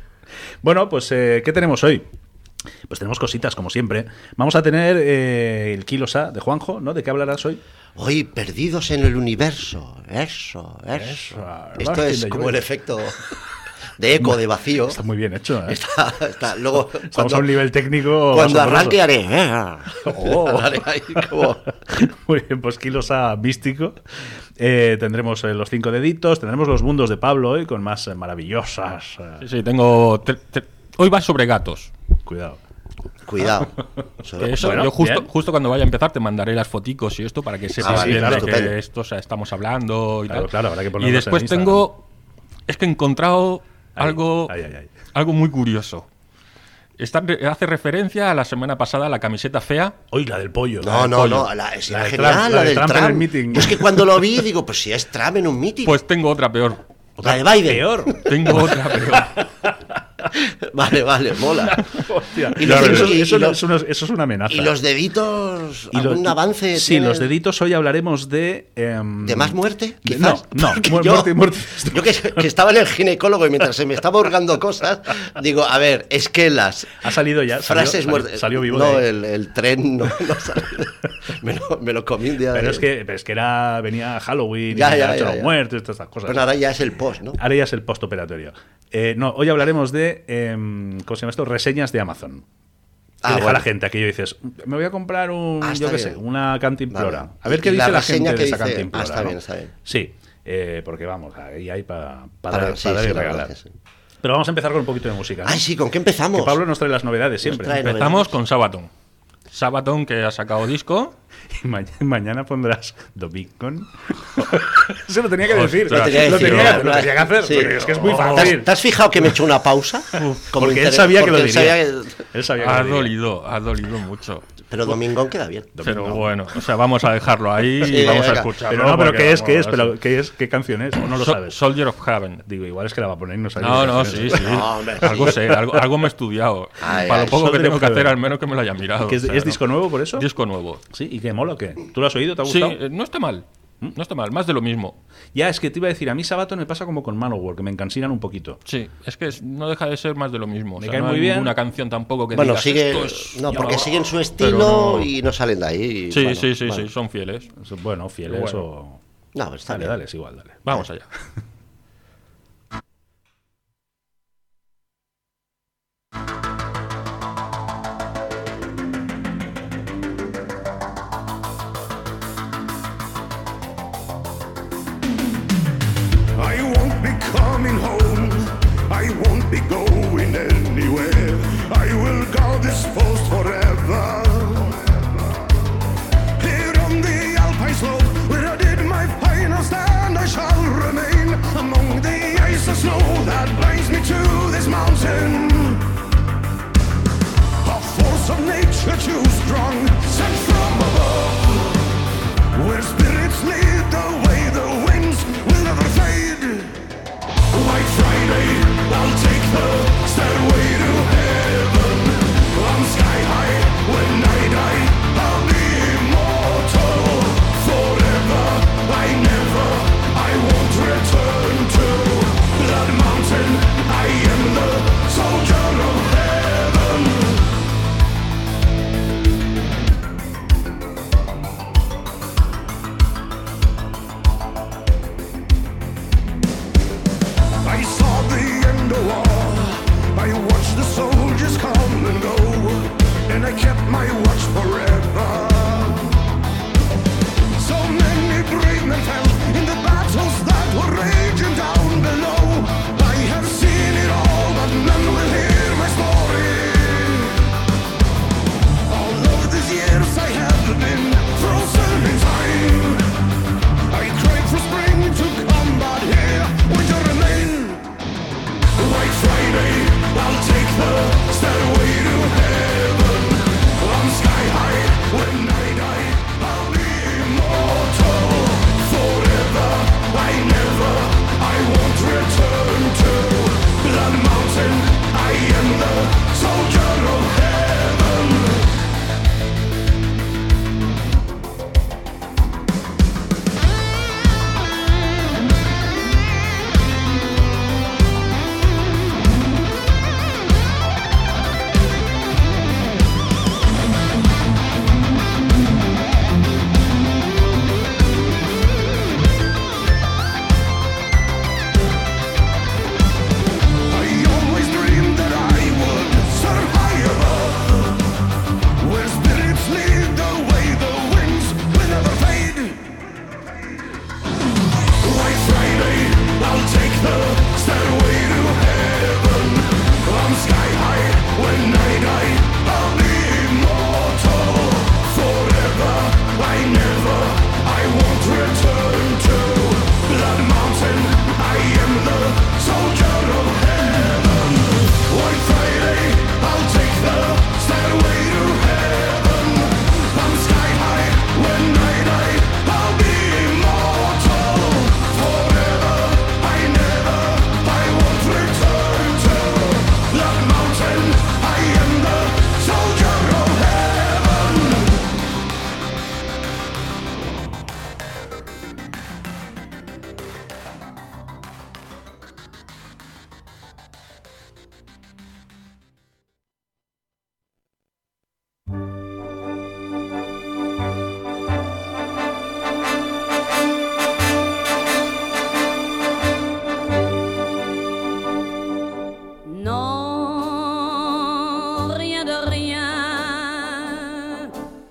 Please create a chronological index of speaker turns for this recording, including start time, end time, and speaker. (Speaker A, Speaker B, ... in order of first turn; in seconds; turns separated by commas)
Speaker A: 0.6-2.1, Speaker A: 2.9-7.6, Speaker B: 8.0-13.2, Speaker A: 10.9-12.7, Speaker B: 14.0-15.0, Speaker A: 14.2-15.8, Speaker B: 15.7-17.5, Speaker A: 16.9-18.9, Speaker B: 18.3-21.6, Speaker A: 20.0-21.4, Speaker A: 21.9-24.0, Speaker A: 24.6-29.4, Speaker C: 29.4-31.9, Speaker A: 32.2-32.6, Speaker B: 33.2-34.8, Speaker C: 34.4-42.0, Speaker A: 34.6-35.2, Speaker B: 37.8-38.7, Speaker A: 37.8-38.6, Speaker A: 40.3-41.9, Speaker C: 42.7-44.5, Speaker A: 44.0-44.9, Speaker C: 45.1-46.1, Speaker C: 47.0-50.0, Speaker A: 50.1-51.1, Speaker B: 50.8-56.0, Speaker C: 50.9-51.5, Speaker A: 51.9-54.2, Speaker C: 55.8-56.8, Speaker B: 57.2-58.6, Speaker A: 57.2-58.5, Speaker C: 58.2-59.4, Speaker B: 60.3-61.8, Speaker A: 61.6-64.7, Speaker B: 62.5-63.6, Speaker C: 62.6-63.1, Speaker B: 64.5-67.3, Speaker A: 65.9-72.5, Speaker B: 69.2-77.1, Speaker A: 77.0-79.0, Speaker B: 77.6-82.9, Speaker A: 82.5-86.4, Speaker B: 84.7-85.5, Speaker B: 86.2-87.4, Speaker A: 87.4-92.4, Speaker B: 93.2-93.7, Speaker A: 93.2-103.5, Speaker B: 95.6-96.2, Speaker B: 96.9-99.7, Speaker B: 102.5-103.7, Speaker A: 104.2-105.6, Speaker B: 105.4-106.6, Speaker A: 106.3-107.8, Speaker B: 107.4-108.4, Speaker C: 107.8-108.9, Speaker C: 109.5-111.1, Speaker A: 111.5-118.7, Speaker C: 115.5-117.0, Speaker B: 115.8-122.2, Speaker C: 117.6-118.6, Speaker A: 120.4-123.1, Speaker C: 122.6-124.4, Speaker B: 124.7-125.7, Speaker A: 125.8-126.3, Speaker C: 125.8-129.9, Speaker B: 127.8-128.5, Speaker A: 128.6-131.6, Speaker C: 131.0-132.4, Speaker A: 132.4-134.4, Speaker C: 133.6-140.8, Speaker B: 134.3-135.4, Speaker B: 136.8-137.4, Speaker A: 137.1-138.1, Speaker A: 139.0-140.2, Speaker A: 140.9-142.8, Speaker C: 142.4-144.9, Speaker A: 145.3-148.6, Speaker C: 148.7-155.1, Speaker A: 150.8-151.5, Speaker B: 152.3-156.9, Speaker C: 156.1-157.5, Speaker A: 157.6-159.0, Speaker C: 158.3-158.6, Speaker B: 159.3-160.0, Speaker A: 159.7-160.6, Speaker C: 160.6-161.1, Speaker D: 176.4-185.1, Speaker D: 186.4-195.9, Speaker D: 197.6-201.8, Speaker D: 202.5-206.8, Speaker D: 207.5-227.5, Speaker D: 237.6-246.2, Speaker D: 247.6-257.5, Speaker D: 258.9-263.0, Speaker D: 263.9-267.9, Speaker D: 268.7-288.7, Speaker D: 313.9-318.0, Speaker D: 318.8-322.9, Speaker D: 325.0-365.1, Speaker E: 389.4-394.5